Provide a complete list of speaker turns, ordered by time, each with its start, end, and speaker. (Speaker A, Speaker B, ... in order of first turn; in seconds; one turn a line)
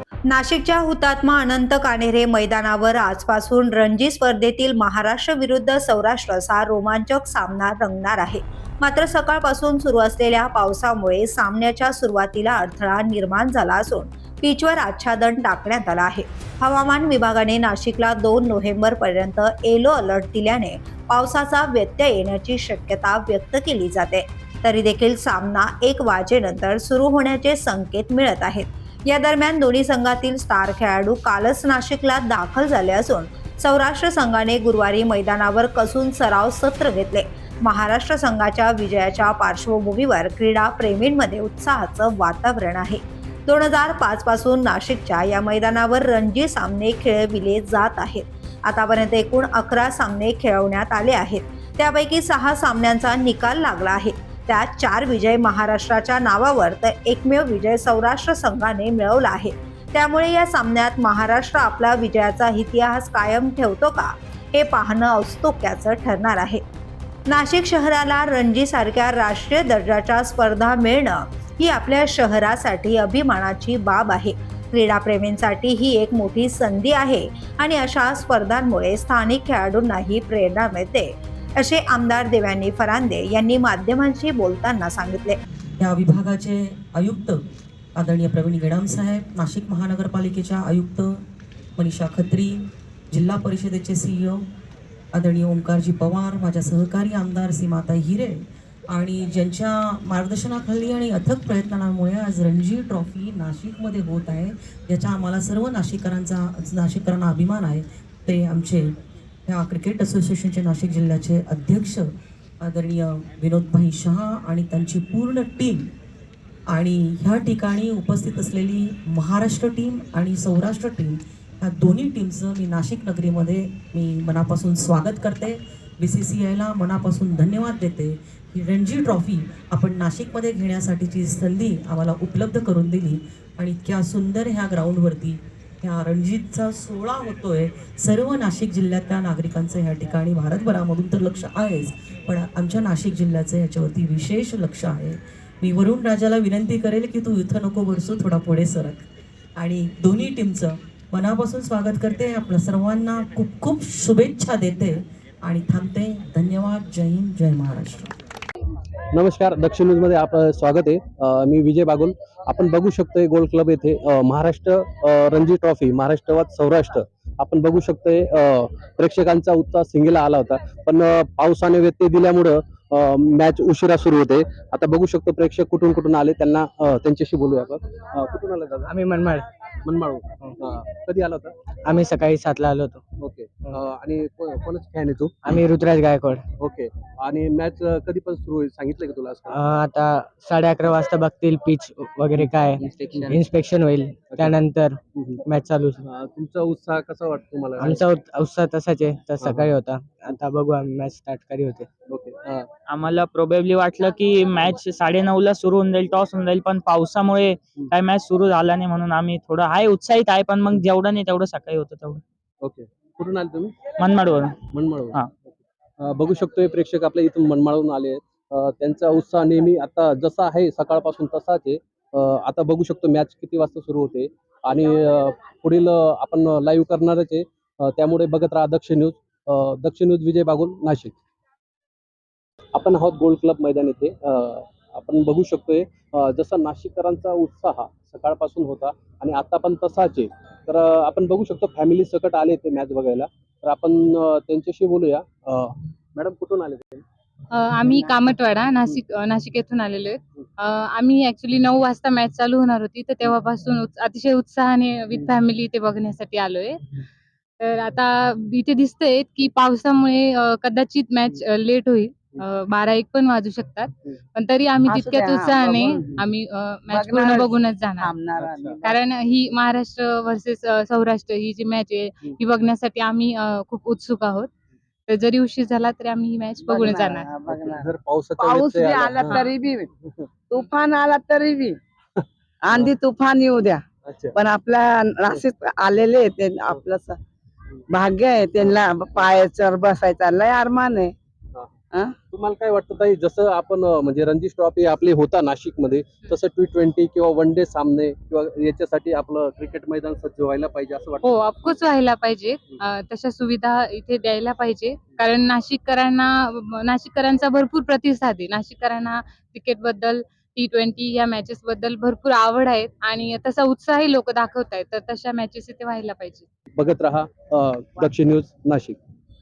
Speaker A: 0.3-43.0
Speaker A: 43.5-66.6
Speaker A: 67.4-85.4
Speaker B: 85.8-87.4
Speaker B: 88.0-91.2
Speaker B: 91.8-94.5
Speaker B: 95.1-108.9
Speaker B: 109.5-112.1
Speaker B: 112.6-115.9
Speaker B: 116.7-158.1
Speaker C: 159.1-178.9
Speaker D: 178.9-179.5
Speaker C: 179.8-181.5
Speaker D: 181.8-183.0
Speaker C: 183.2-185.3
Speaker D: 185.4-186.4
Speaker C: 186.6-189.6
Speaker D: 189.5-196.0
Speaker C: 192.3-193.4
Speaker C: 194.3-194.6
Speaker C: 195.2-195.4
Speaker C: 196.0-198.0
Speaker D: 197.8-201.9
Speaker C: 199.4-199.7
Speaker C: 202.1-202.7
Speaker E: 202.9-212.2
Speaker C: 212.6-213.8
Speaker E: 214.0-214.6
Speaker C: 214.7-231.1
Speaker C: 232.8-247.0
Speaker F: 247.5-256.8
Speaker F: 257.6-268.1
Speaker G: 264.8-266.2
Speaker G: 266.9-269.0
Speaker C: 268.4-268.8
Speaker F: 268.8-274.5
Speaker F: 275.1-277.3
Speaker G: 276.6-279.9
Speaker C: 277.4-279.6
Speaker G: 280.5-281.8
Speaker C: 282.2-282.9
Speaker G: 282.6-287.2
Speaker C: 284.0-284.4
Speaker G: 287.9-291.1
Speaker C: 292.3-301.7
Speaker F: 301.2-316.4
Speaker C: 316.8-319.0